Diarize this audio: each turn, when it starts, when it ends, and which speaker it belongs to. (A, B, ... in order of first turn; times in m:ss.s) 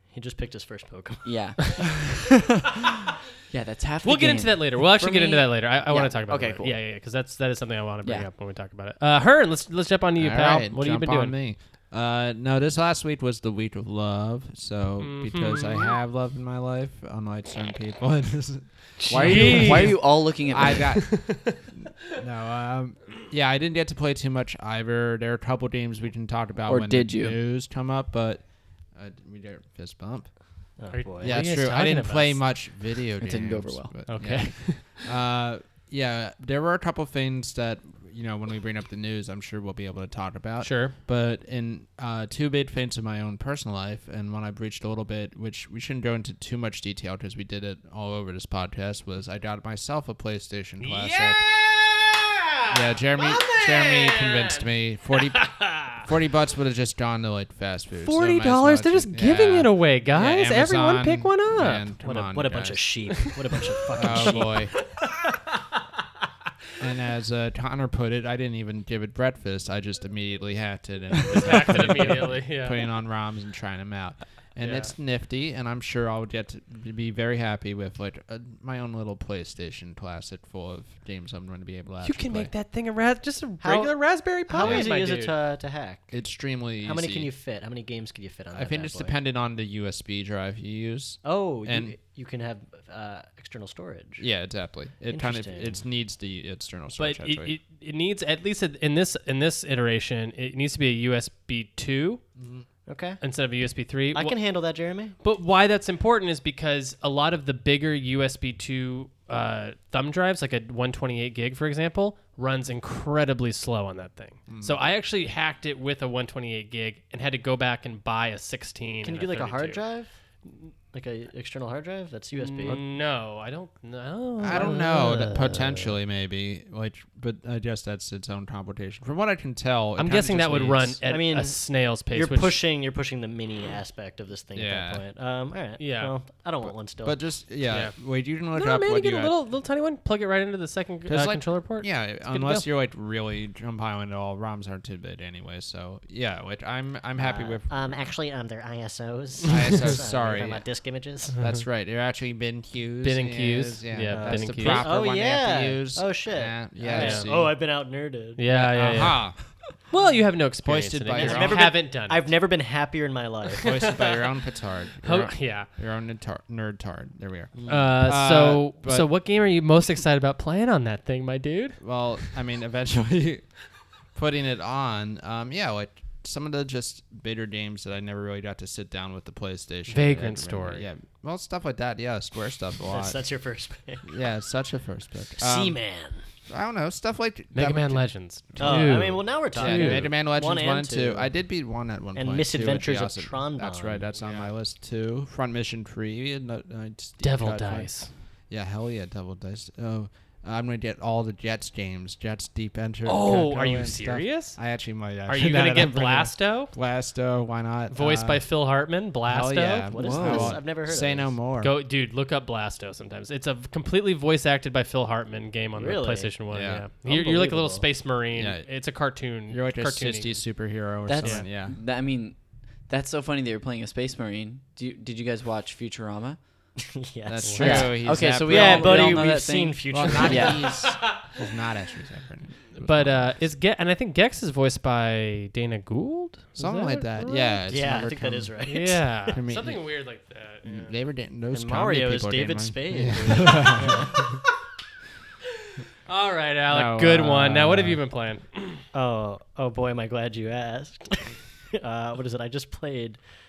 0:00.1-0:01.8 A
0:01.2-0:06.8 B
0:04.0-0:11.4 C
0:08.0-0:08.3 B
0:10.2-0:51.4 D
0:15.0-0:16.0 C
0:19.0-0:20.0 C
0:19.1-0:20.9 B
0:20.9-0:21.6 C
0:26.6-0:27.4 B
0:30.8-0:31.4 A
0:30.9-0:32.4 C
0:33.2-0:34.0 B
0:34.1-0:35.0 C
0:40.6-0:41.0 C
0:50.8-0:54.6 C
0:52.7-1:02.8 D
0:55.3-0:55.8 C
0:58.0-1:01.8 C
1:02.0-1:04.7 A
1:04.0-1:04.8 D
1:04.0-1:04.6 C
1:06.8-1:22.5 D
1:11.2-1:12.8 C
1:14.6-1:14.9 C
1:22.0-1:25.3 C
1:23.6-1:26.1 A
1:24.6-1:24.9 D
1:26.1-1:27.3 D
1:26.8-1:29.1 A
1:28.5-1:31.9 D
1:31.2-1:34.2 A
1:34.2-1:37.6 D
1:35.1-1:35.8 A
1:37.0-1:42.2 C
1:42.4-1:42.7 D
1:42.9-1:43.2 A
1:43.2-1:44.3 C
1:44.1-1:45.1 A
1:45.2-1:59.8 C
1:54.5-1:54.8 D
1:59.0-2:00.1 A
2:00.9-2:02.8 A
2:02.4-2:05.7 C
2:04.4-2:11.0 D
2:04.5-2:05.9 A
2:10.0-2:12.6 C
2:11.1-2:17.2 A
2:14.6-2:15.0 D
2:15.8-2:16.1 C
2:17.0-2:19.3 D
2:17.7-2:17.9 C
2:18.5-2:22.6 C
2:21.1-2:28.0 D
2:27.2-2:31.4 A
2:29.4-2:30.6 D
2:31.4-2:31.6 C
2:31.4-2:37.5 D
2:33.0-2:34.9 C
2:34.1-2:38.4 A
2:36.9-2:37.3 C
2:38.4-2:39.3 C
2:38.5-2:39.7 D
2:39.9-2:42.3 C
2:40.6-2:41.6 D
2:41.1-2:43.7 A
2:43.6-2:49.1 D
2:43.6-2:44.3 C
2:45.0-2:45.7 C
2:47.5-2:47.9 A
2:47.7-2:52.3 C
2:51.8-3:03.2 D
2:59.9-3:00.9 C
3:02.9-3:04.1 A
3:04.0-3:05.8 D
3:05.4-3:06.2 A
3:06.5-3:09.0 D
3:07.5-3:10.1 C
3:08.6-3:11.3 A
3:09.6-3:28.5 D
3:12.1-3:14.0 A
3:14.1-3:14.5 C
3:17.2-3:18.1 C
3:23.0-3:24.6 C
3:25.2-3:26.7 C
3:27.9-3:30.5 C
3:29.3-3:31.7 D
3:29.9-3:31.3 A
3:30.1-3:30.5 B
3:31.6-3:40.4 C
3:35.8-3:36.4 A
3:36.5-3:36.8 D
3:37.0-3:37.9 A
3:38.3-3:41.8 D
3:41.0-3:46.4 B
3:41.2-3:41.5 C
3:46.8-3:50.8 A
3:47.3-3:53.5 D
3:47.4-3:47.8 C
3:47.6-3:50.8 B
3:52.8-3:57.6 C
3:56.6-3:58.5 D
3:57.7-3:59.3 A
3:58.6-4:00.9 C
3:59.3-3:59.9 D
4:00.6-4:04.4 D
4:01.5-4:04.3 A
4:06.1-4:08.8 C
4:06.7-4:08.0 D
4:08.9-4:13.2 A